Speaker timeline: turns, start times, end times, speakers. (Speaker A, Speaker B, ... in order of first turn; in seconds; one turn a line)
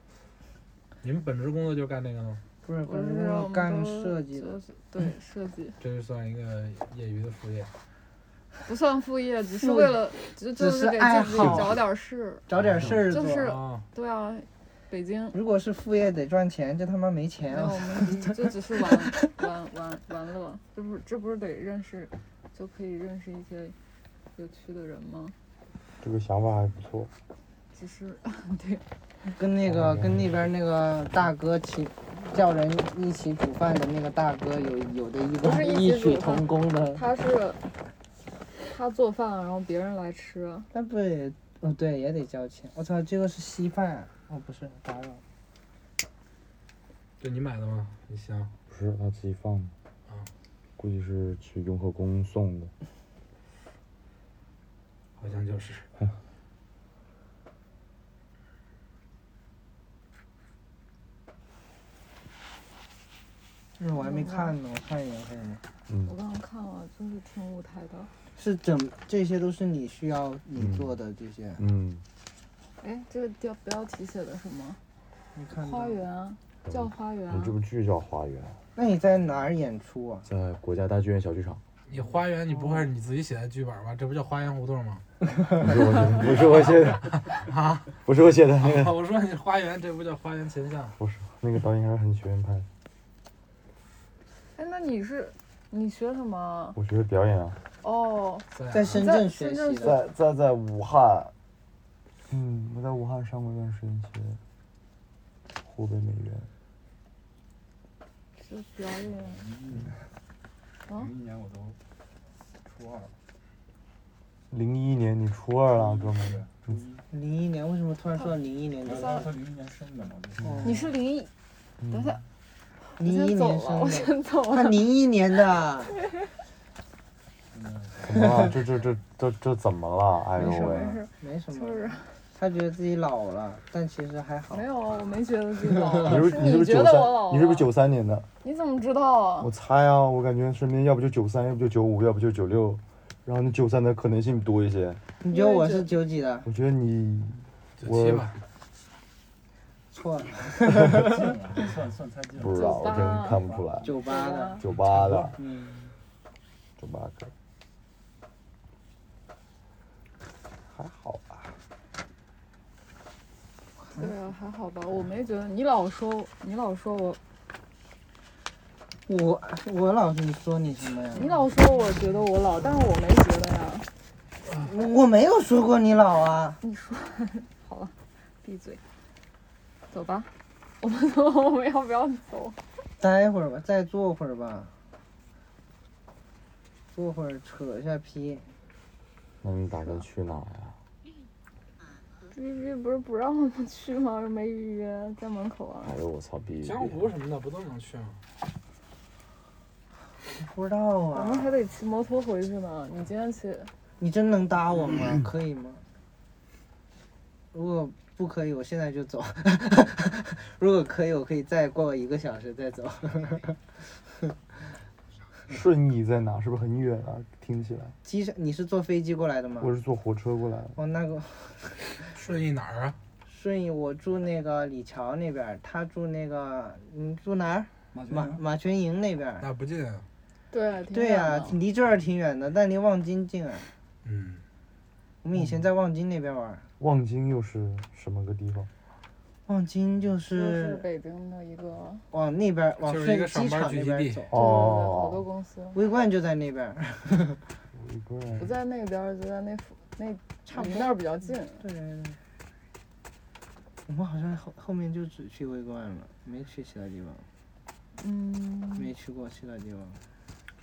Speaker A: 1.0-2.4
Speaker B: 2.6-4.5
Speaker C: 2.9-5.8
Speaker A: 5.8-7.7
Speaker C: 8.6-12.4
Speaker B: 9.5-11.8
Speaker B: 12.5-13.6
Speaker A: 12.5-13.8
Speaker C: 13.1-15.4
Speaker B: 15.3-19.3
Speaker C: 17.5-23.7
Speaker C: 24.3-25.3
Speaker D: 26.0-27.1
Speaker C: 27.7-28.8
Speaker B: 29.4-37.0
Speaker D: 29.7-30.3
Speaker C: 35.4-37.6
Speaker C: 38.6-40.7
Speaker B: 40.7-45.2
Speaker A: 47.2-48.5
Speaker D: 48.7-49.7
Speaker D: 50.8-52.7
Speaker A: 55.2-55.9
Speaker B: 63.8-65.6
Speaker C: 64.0-64.5
Speaker D: 65.9-66.1
Speaker C: 66.0-68.1
Speaker B: 68.3-71.6
Speaker D: 70.5-70.9
Speaker D: 71.6-72.0
Speaker C: 72.8-74.8
Speaker B: 75.3-76.0
Speaker C: 75.6-77.5
Speaker D: 76.7-78.6
Speaker B: 78.8-80.2
Speaker D: 80.2-81.6
Speaker A: 81.9-85.0
Speaker B: 82.6-82.8
Speaker D: 85.6-87.2
Speaker A: 86.2-88.0
Speaker D: 88.0-89.0
Speaker A: 88.5-91.0
Speaker D: 91.0-92.7
Speaker C: 94.5-96.8
Speaker D: 96.8-97.6
Speaker C: 97.8-100.0
Speaker A: 98.5-99.0
Speaker B: 98.7-100.0
Speaker D: 99.8-101.3
Speaker D: 102.3-104.4
Speaker D: 105.6-106.5
Speaker C: 108.4-109.4
Speaker E: 109.0-110.1
Speaker E: 110.9-111.8
Speaker E: 112.6-113.1
Speaker D: 114.5-116.5
Speaker E: 115.7-117.0
Speaker B: 117.1-119.3
Speaker E: 118.8-120.8
Speaker B: 120.4-120.9
Speaker C: 120.6-121.3
Speaker D: 121.8-122.2
Speaker C: 121.9-122.2
Speaker C: 123.0-124.9
Speaker B: 123.0-125.9
Speaker C: 126.0-126.3
Speaker E: 127.5-128.8
Speaker D: 128.0-131.0
Speaker C: 130.3-132.1
Speaker B: 130.4-134.6
Speaker C: 134.5-137.7
Speaker D: 136.0-138.3
Speaker C: 138.4-139.5
Speaker D: 139.4-145.0
Speaker B: 145.2-146.5
Speaker C: 145.3-145.9
Speaker D: 146.4-148.3
Speaker A: 147.8-148.4
Speaker B: 149.9-151.1
Speaker E: 150.7-153.8
Speaker D: 152.4-153.9
Speaker C: 152.5-154.6
Speaker B: 153.8-154.6
Speaker D: 154.6-155.4
Speaker E: 154.9-155.3
Speaker B: 155.4-155.8
Speaker D: 156.8-157.3
Speaker D: 160.7-161.5
Speaker B: 163.8-164.1
Speaker C: 163.9-167.2
Speaker B: 169.1-171.4
Speaker C: 171.1-173.9
Speaker B: 174.5-176.6
Speaker C: 176.6-178.8
Speaker C: 179.9-182.6
Speaker B: 183.0-184.7
Speaker B: 186.9-188.5
Speaker D: 189.4-190.8
Speaker C: 192.3-196.0
Speaker D: 195.8-197.1
Speaker A: 196.6-198.2
Speaker B: 200.4-201.5
Speaker C: 201.1-203.7
Speaker B: 204.0-205.8
Speaker B: 207.5-213.7
Speaker D: 215.5-217.9
Speaker B: 218.0-219.7
Speaker D: 219.6-220.8
Speaker B: 220.7-221.8
Speaker A: 222.1-222.9
Speaker B: 223.2-229.4
Speaker E: 227.9-228.4
Speaker A: 229.4-230.0
Speaker C: 230.5-231.6
Speaker B: 230.9-233.7
Speaker A: 234.0-234.4
Speaker B: 235.2-236.6
Speaker D: 236.8-238.7
Speaker B: 239.5-240.8
Speaker C: 240.3-242.0
Speaker B: 242.1-244.3
Speaker A: 242.8-244.3
Speaker D: 244.3-245.2
Speaker C: 244.3-245.8
Speaker B: 245.7-247.4
Speaker D: 247.7-248.6
Speaker C: 248.4-251.6
Speaker B: 250.4-252.2
Speaker B: 253.9-257.2
Speaker C: 258.0-258.9
Speaker B: 258.8-260.0